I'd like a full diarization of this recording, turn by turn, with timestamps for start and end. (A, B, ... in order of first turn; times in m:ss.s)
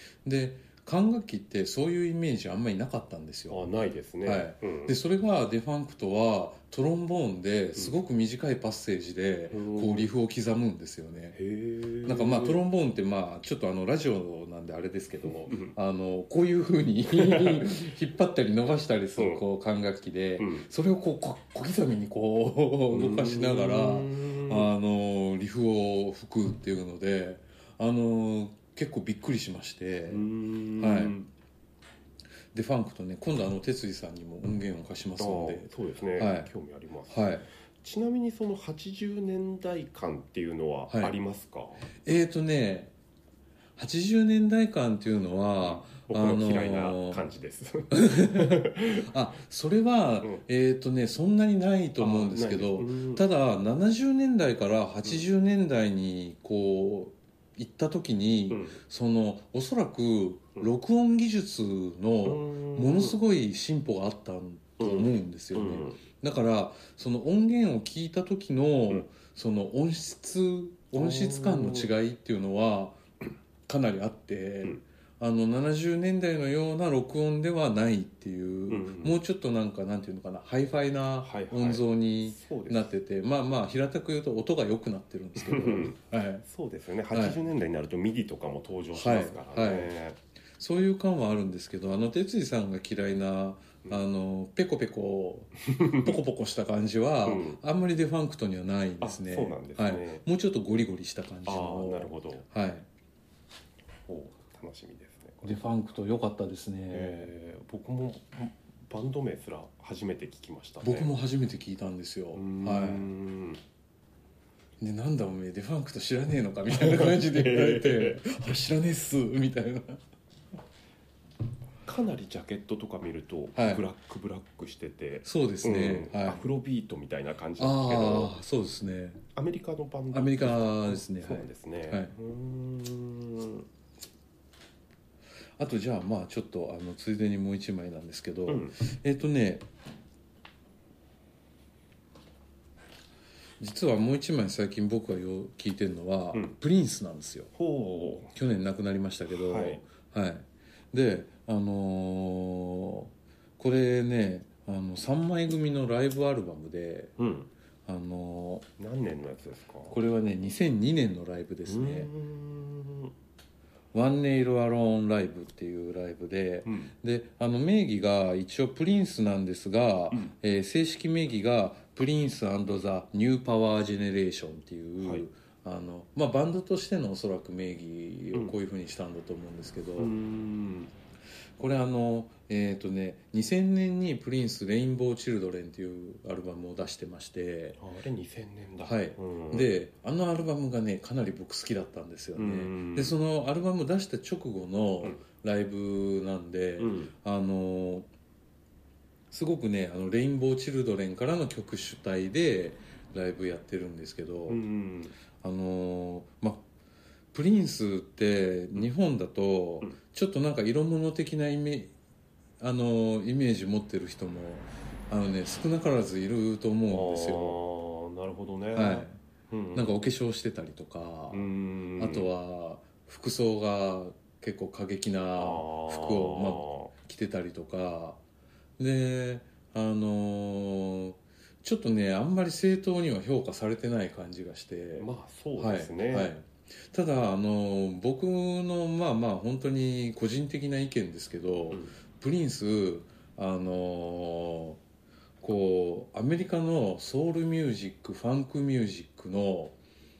0:00.2-0:03.7 A
0:03.5-0:05.0 B
0:04.2-0:11.4 A
0:09.5-0:10.1 B
0:11.3-0:12.6 B
0:12.0-0:30.3 A
0:15.5-0:15.7 B
0:17.1-0:17.8 B
0:19.2-0:19.4 B
0:20.4-0:20.7 B
0:22.9-0:24.7 B
0:30.1-0:31.3 B
0:30.8-0:31.2 A
0:32.5-0:36.5 A
0:35.2-0:41.9 B
0:37.1-0:37.5 A
0:42.0-0:42.9 A
0:43.8-0:47.2 A
0:45.6-0:49.1 B
0:47.9-1:13.0 A
0:52.0-0:53.2 B
0:58.5-0:58.8 B
1:02.2-1:03.2 B
1:04.8-1:06.0 B
1:10.9-1:11.9 B
1:13.7-1:26.4 A
1:18.7-1:19.2 B
1:21.2-1:22.9 B
1:25.4-1:30.2 B
1:27.1-1:27.4 A
1:28.9-1:29.9 A
1:30.6-1:42.9 A
1:35.6-1:36.1 B
1:37.2-1:37.6 B
1:39.0-1:40.2 B
1:41.4-1:42.5 B
1:44.1-1:45.6 B
1:45.4-1:47.3 A
1:46.9-1:51.1 B
1:50.8-1:53.1 A
1:52.3-1:53.6 B
1:54.8-2:00.0 A
1:56.7-1:58.2 B
2:01.8-2:08.3 B
2:03.5-2:03.8 A
2:05.2-2:06.4 A
2:07.6-2:09.2 A
2:09.3-2:13.7 B
2:10.1-2:12.1 A
2:15.6-2:19.6 A
2:18.5-2:18.8 B
2:23.6-2:27.5 A
2:27.5-2:28.3 B
2:28.3-2:37.1 A
2:29.3-2:29.8 B
2:37.2-2:37.5 B
2:37.8-2:38.7 A
2:38.8-2:40.0 B
2:39.9-2:42.1 A
2:41.6-2:43.1 B
2:43.9-3:00.1 A
2:46.6-2:46.9 B
2:55.0-2:55.2 B
3:00.0-3:00.9 B
3:01.6-3:07.8 A
3:07.8-3:09.7 B
3:08.8-3:18.1 A
3:12.3-3:13.2 B
3:16.8-3:17.1 B
3:19.3-3:24.6 A
3:24.5-3:25.1 B
3:25.4-3:26.6 A
3:27.3-3:31.9 A
3:32.6-3:37.6 A
3:36.9-3:39.9 B
3:38.7-3:39.2 A
3:39.7-3:48.2 A
3:41.3-3:42.3 B
3:45.4-3:46.9 B
3:48.8-4:04.8 A
3:55.0-3:56.3 B
4:05.4-4:09.8 A